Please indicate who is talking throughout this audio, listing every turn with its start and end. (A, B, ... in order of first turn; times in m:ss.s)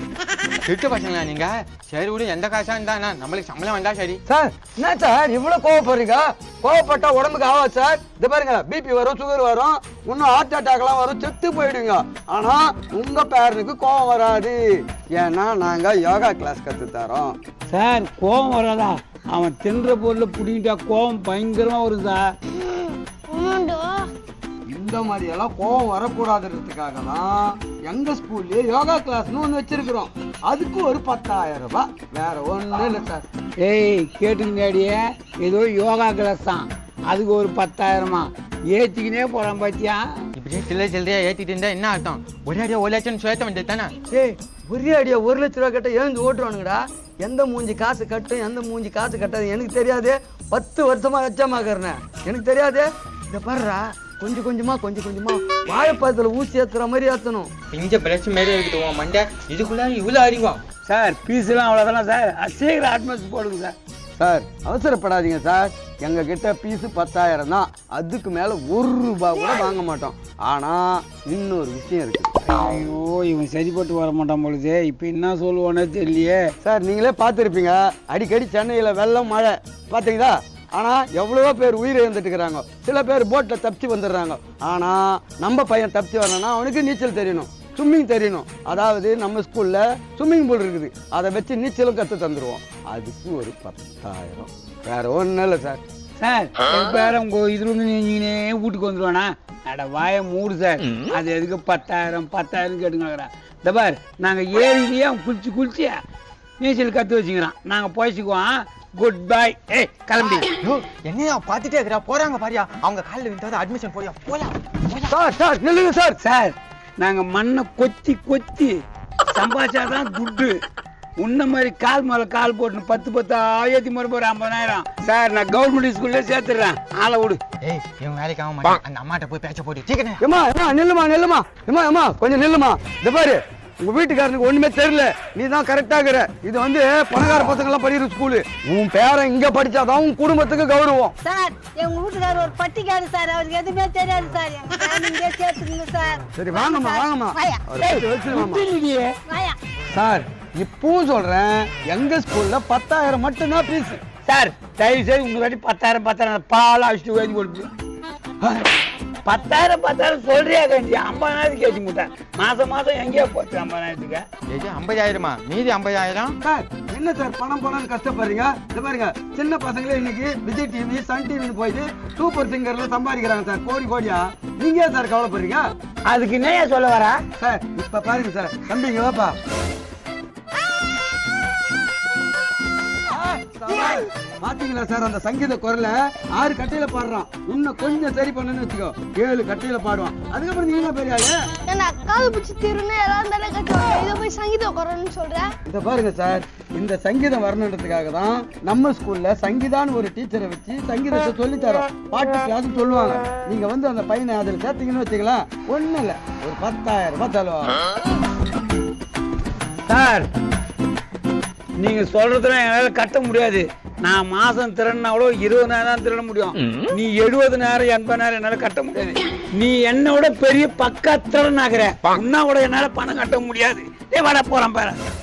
0:00.7-0:04.2 A
0:04.3-0:17.4 B
0:17.7-0:22.3 C
0:22.5-0:24.1 D
0:24.7-0:33.2 B
0:33.6-0:40.2 C
0:40.4-0:44.0 A
0:44.1-0:57.5 B
0:57.7-1:00.6 A
1:00.9-1:03.8 C
1:04.2-1:12.3 B
1:12.5-1:16.5 C
1:16.6-1:35.8 B
1:36.2-1:46.0 C
1:46.6-1:50.5 C
1:50.4-1:55.1 A
1:55.1-1:56.2 B
1:56.2-1:58.8 C
1:59.3-2:00.6 C
2:01.2-2:07.4 C
2:07.6-2:10.2 A
2:10.2-2:21.2 B
2:21.2-2:27.6 E
2:26.4-2:28.7 B
2:27.8-2:29.2 C
2:29.3-2:29.6 E
2:29.9-2:34.0 B
2:34.2-2:37.7 C
2:39.2-2:44.2 C
2:44.5-2:46.4 A
2:46.4-2:55.7 B
2:56.1-2:57.2 C
2:57.4-2:59.4 B
3:03.0-3:11.4 B
3:11.7-3:15.5 D
3:15.7-3:27.8 B
3:29.9-3:30.3 C
3:31.8-3:45.0 C